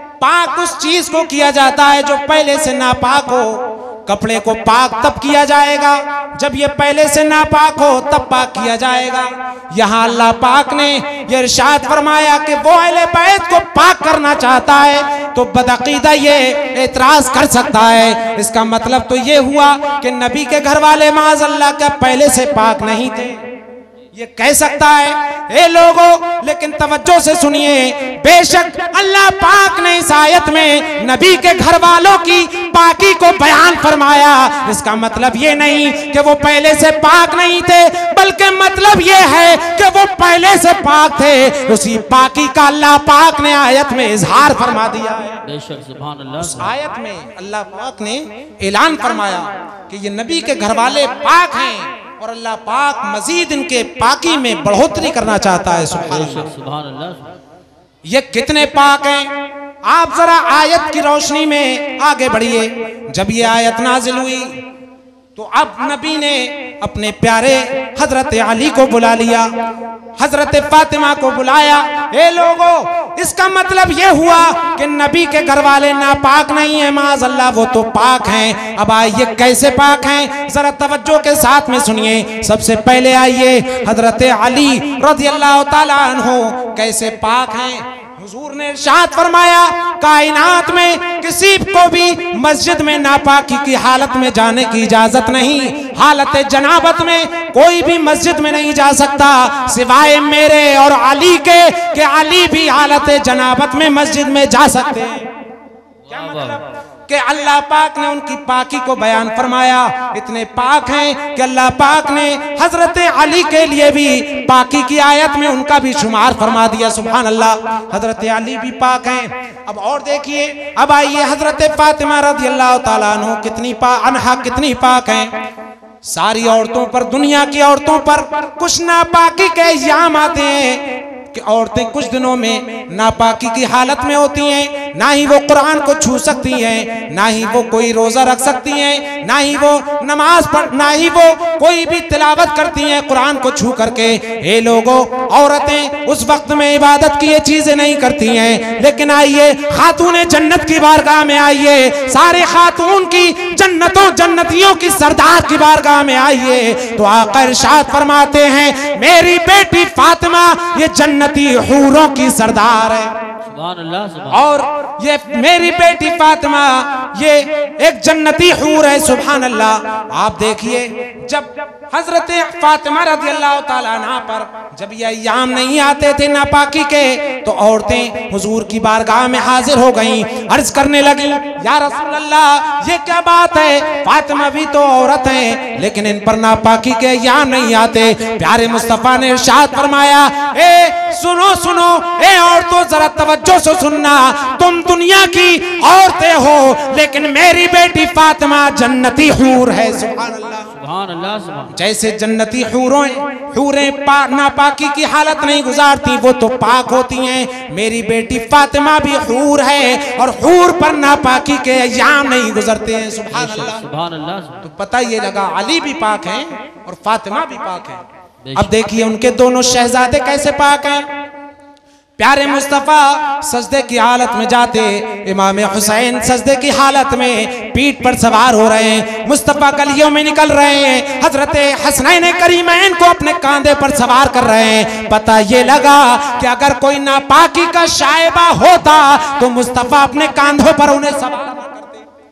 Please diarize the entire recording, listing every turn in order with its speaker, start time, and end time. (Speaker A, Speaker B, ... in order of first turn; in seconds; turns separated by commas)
Speaker A: 0.2-23.4, Speaker A: 24.1-45.4, Speaker B: 45.4-46.7, Speaker A: 46.4-56.5, Speaker B: 56.0-57.4, Speaker A: 58.0-59.3, Speaker A: 59.9-64.6, Speaker A: 65.3-69.5, Speaker A: 70.2-105.3, Speaker B: 106.0-106.6, Speaker A: 106.1-125.3, Speaker A: 126.0-163.1, Speaker B: 163.4-164.4, Speaker A: 164.3-200.7, Speaker B: 200.7-201.7, Speaker A: 201.7-213.8, Speaker B: 213.3-214.6, Speaker A: 214.6-218.0, Speaker B: 218.4-218.7, Speaker A: 218.5-221.0, Speaker A: 222.2-242.0